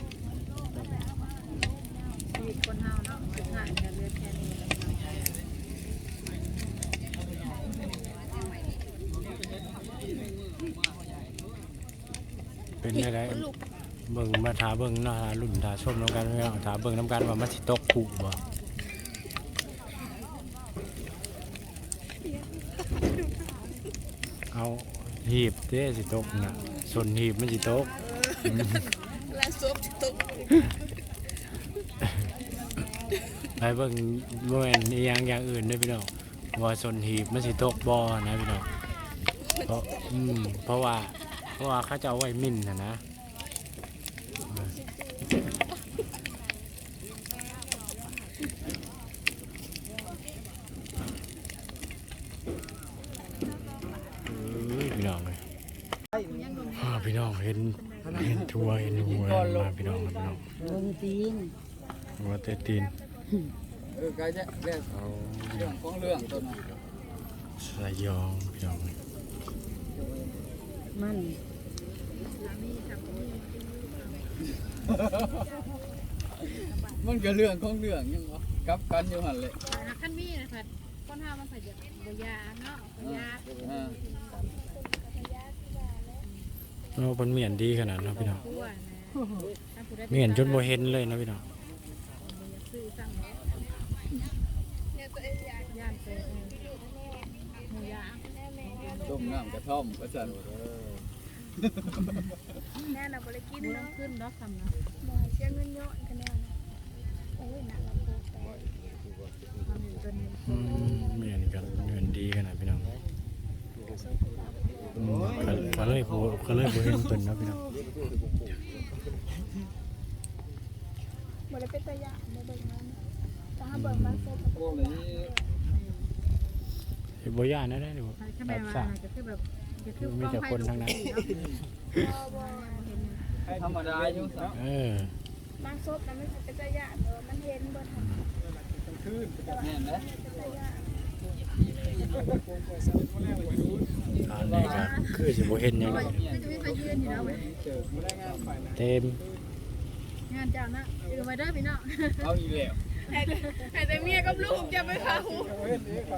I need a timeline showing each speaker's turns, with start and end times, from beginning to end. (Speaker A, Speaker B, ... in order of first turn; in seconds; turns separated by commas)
Speaker A: 2.3-5.1, Speaker B: 12.8-13.5, Speaker C: 13.2-13.5, Speaker B: 14.1-18.4, Speaker C: 22.4-23.2, Speaker B: 24.5-27.9, Speaker B: 28.4-28.7, Speaker C: 28.6-30.4, Speaker B: 33.5-38.7, Speaker B: 39.6-43.0, Speaker C: 44.5-45.5, Speaker B: 54.3-55.4, Speaker A: 56.2-58.3, Speaker B: 56.7-60.5, Speaker B: 62.2-62.9, Speaker D: 64.0-64.8, Speaker B: 64.9-65.8, Speaker D: 65.7-66.5, Speaker B: 67.6-68.9, Speaker A: 72.2-74.2, Speaker A: 76.6-77.1, Speaker D: 77.1-79.6, Speaker A: 79.7-83.7, Speaker D: 83.6-84.0, Speaker C: 84.2-86.2, Speaker B: 86.9-88.4, Speaker A: 88.4-90.7, Speaker B: 90.1-91.4, Speaker A: 92.2-93.4, Speaker C: 94.9-95.9, Speaker A: 95.7-96.6, Speaker C: 96.8-97.4, Speaker A: 97.7-98.2, Speaker C: 98.3-99.2, Speaker D: 99.1-100.4, Speaker C: 102.9-103.8, Speaker A: 103.6-104.8, Speaker C: 105.0-106.6, Speaker C: 107.4-108.6, Speaker A: 109.7-110.8, Speaker B: 110.5-112.9, Speaker C: 113.9-114.8, Speaker B: 115.0-117.6, Speaker C: 121.5-123.0, Speaker C: 123.6-125.3, Speaker B: 123.7-124.4, Speaker B: 127.2-128.9, Speaker A: 128.2-131.0, Speaker B: 130.0-131.2, Speaker C: 131.9-133.2, Speaker A: 132.3-133.3, Speaker D: 133.6-134.5, Speaker B: 134.5-135.1, Speaker C: 135.6-138.1, Speaker B: 138.0-138.2, Speaker C: 139.5-140.9, Speaker B: 144.2-146.2, Speaker A: 145.8-147.5, Speaker D: 146.0-146.3, Speaker B: 148.7-149.2, Speaker A: 150.3-152.3, Speaker C: 153.0-155.7